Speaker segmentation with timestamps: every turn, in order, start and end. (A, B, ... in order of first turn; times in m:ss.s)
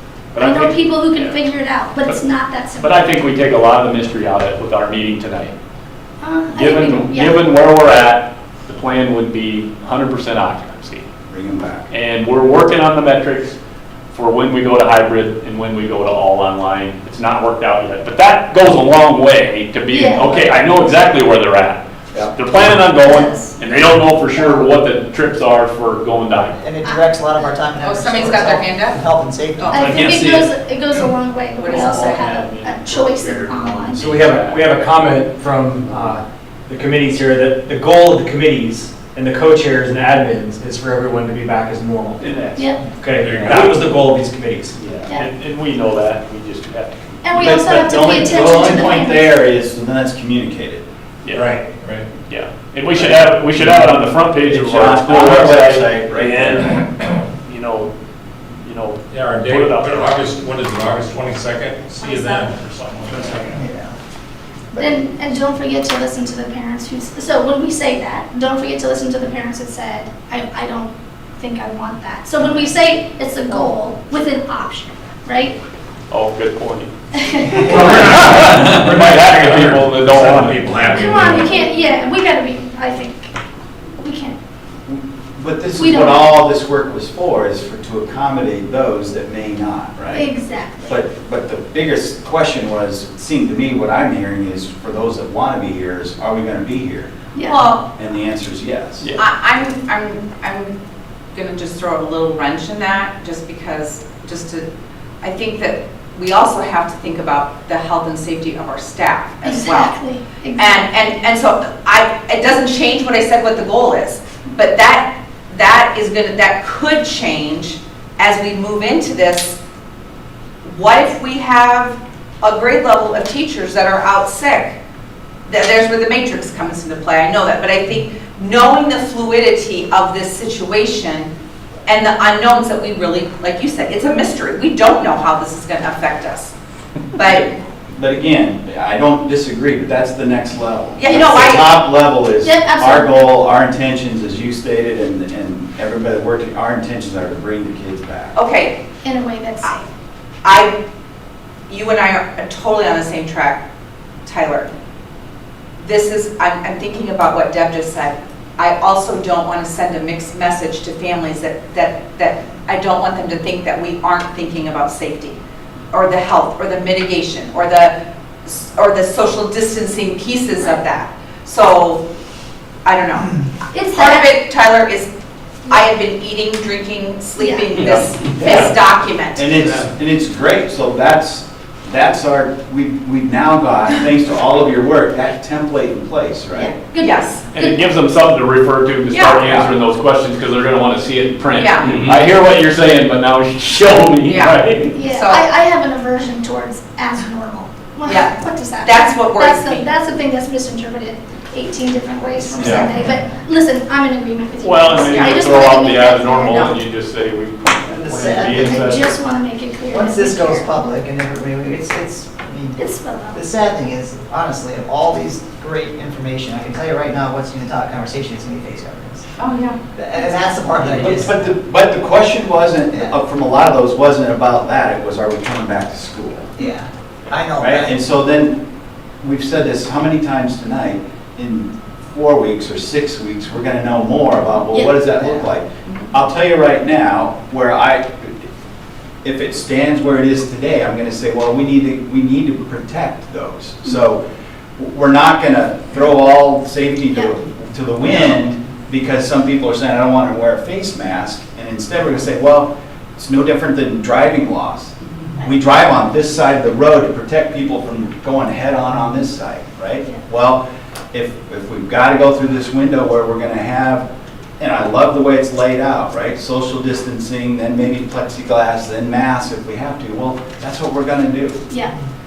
0:00.3-0:01.4 A
0:00.4-0:03.1 B
0:02.8-0:05.5 A
0:06.2-0:07.4 B
0:06.5-0:11.1 A
0:11.3-0:11.9 C
0:11.9-0:13.6 A
0:14.1-0:26.6 A
0:19.9-0:20.4 B
0:23.0-0:23.6 B
0:24.4-0:24.6 D
0:26.4-0:30.0 D
0:27.8-0:29.0 E
0:29.6-0:29.9 E
0:29.7-0:34.0 B
0:29.8-0:30.5 A
0:31.6-0:32.4 E
0:31.8-0:34.6 A
0:34.0-0:42.3 F
0:42.2-0:43.9 A
0:42.6-0:42.8 B
0:42.9-0:44.8 F
0:44.8-0:47.2 A
0:47.2-0:49.3 B
0:47.3-0:50.8 C
0:51.2-0:51.5 A
0:51.3-0:52.0 F
0:52.3-0:56.8 A
0:53.0-0:53.8 C
0:54.5-0:56.7 C
0:57.4-0:57.9 A
0:58.6-1:00.3 A
0:59.1-1:03.6 G
1:02.0-1:02.5 B
1:03.6-1:04.0 D
1:04.7-1:05.0 D
1:04.8-1:15.6 B
1:16.1-1:16.9 A
1:17.2-1:17.7 B
1:17.4-1:21.2 A
1:17.7-1:21.5 F
1:20.9-1:23.3 B
1:24.0-1:24.4 B
1:24.9-1:30.3 C
1:25.8-1:26.3 B
1:30.1-1:31.0 B
1:30.9-1:37.1 C
1:37.4-1:37.6 B
1:37.4-1:37.8 E
1:37.9-1:39.1 C
1:39.2-1:40.7 E
1:41.3-1:44.6 E
1:45.2-1:50.0 E
1:49.4-1:50.9 B
1:50.6-1:59.6 E
2:00.6-2:04.8 E
2:05.5-2:11.3 E
2:11.9-2:16.5 E
2:17.2-2:17.5 E
2:17.2-2:28.3 C
2:21.0-2:21.7 E
2:22.4-2:23.2 B
2:28.4-2:28.8 E
2:29.0-2:29.9 B
2:30.4-2:30.8 E
2:31.7-2:33.6 E
2:34.3-2:34.7 E
2:35.8-2:45.4 E
2:45.9-2:47.9 E
2:48.4-2:52.0 E
2:52.8-2:53.4 E
2:53.7-2:54.3 B
2:53.9-2:55.1 E
2:55.7-2:59.5 E
2:57.4-2:57.7 B
2:57.8-2:58.7 A
2:59.4-3:06.7 C
3:06.5-3:07.9 B
3:07.0-3:07.5 E
3:07.5-3:14.9 A
3:09.1-3:09.5 E
3:09.4-3:09.7 C
3:11.6-3:12.0 E
3:14.3-3:15.4 E
3:14.9-3:26.8 B
3:18.1-3:19.9 E
3:22.6-3:22.9 A
3:24.6-3:29.1 A
3:25.0-3:25.4 E
3:27.9-3:29.0 D
3:28.5-3:30.7 B
3:29.9-3:39.3 D
3:32.8-3:33.4 B
3:39.4-3:39.8 E
3:40.0-3:41.4 D
3:41.0-3:46.5 C
3:46.6-3:47.9 D
3:47.6-3:48.6 C
3:49.2-3:58.5 C
3:59.2-4:04.2 C
4:04.8-4:20.6 C
4:21.1-4:24.1 C
4:24.6-4:31.6 C